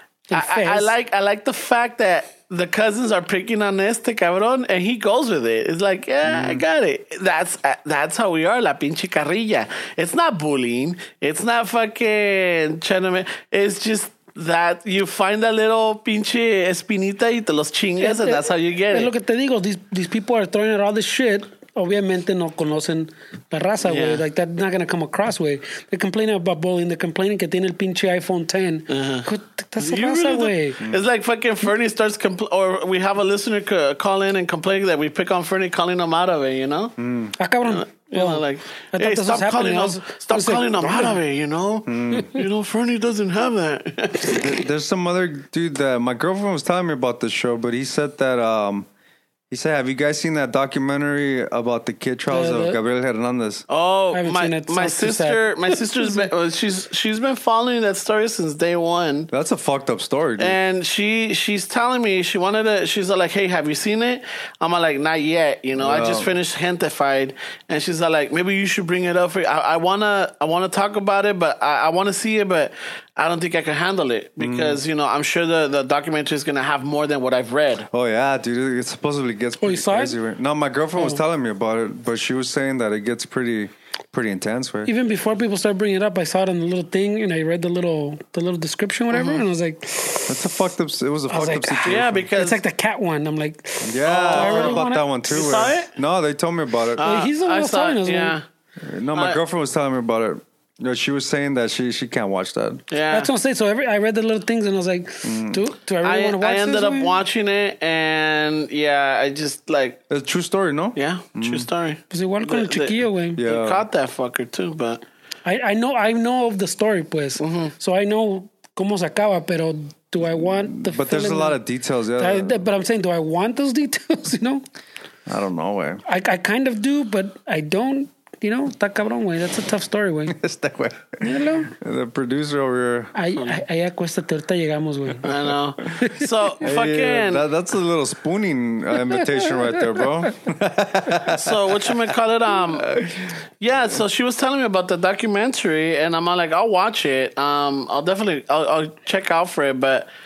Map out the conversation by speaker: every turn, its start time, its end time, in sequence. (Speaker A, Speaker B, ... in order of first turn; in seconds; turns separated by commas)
Speaker A: 0.3-0.9, Speaker B: 0.3-19.1, Speaker C: 6.2-6.6, Speaker A: 18.0-30.8, Speaker B: 23.8-24.2, Speaker B: 28.9-29.3, Speaker B: 29.8-36.9, Speaker C: 37.0-37.3, Speaker A: 37.4-41.2, Speaker B: 37.7-44.6, Speaker C: 41.9-42.4, Speaker C: 44.2-48.9, Speaker C: 49.5-53.6, Speaker A: 52.3-52.8, Speaker B: 53.7-59.3, Speaker A: 54.1-56.3, Speaker C: 59.3-60.6, Speaker B: 60.4-77.9, Speaker C: 65.8-66.3, Speaker C: 74.4-74.8, Speaker C: 77.9-84.9, Speaker A: 79.6-80.2, Speaker A: 81.0-81.2, Speaker A: 84.8-90.6, Speaker B: 89.1-89.4, Speaker C: 90.3-92.3, Speaker A: 91.3-95.7, Speaker B: 91.8-92.6, Speaker C: 93.8-97.0, Speaker B: 94.0-95.9, Speaker B: 97.0-98.4, Speaker A: 97.0-98.3, Speaker C: 98.8-102.8, Speaker B: 99.1-99.4, Speaker B: 102.9-103.3, Speaker A: 103.1-107.1, Speaker C: 105.2-105.6, Speaker B: 106.0-110.0, Speaker C: 110.1-111.7, Speaker B: 111.0-115.0, Speaker A: 112.1-113.4, Speaker C: 113.3-113.8, Speaker A: 115.4-121.6, Speaker B: 117.4-117.7, Speaker C: 120.2-122.6, Speaker A: 122.2-124.6, Speaker C: 125.3-126.0, Speaker A: 126.0-130.4, Speaker C: 130.3-133.1, Speaker A: 131.2-131.7, Speaker A: 133.1-135.3, Speaker B: 135.2-137.4, Speaker A: 136.0-136.3, Speaker C: 136.6-142.0, Speaker A: 139.1-140.0, Speaker B: 141.3-143.0, Speaker C: 142.7-143.3, Speaker B: 143.6-150.1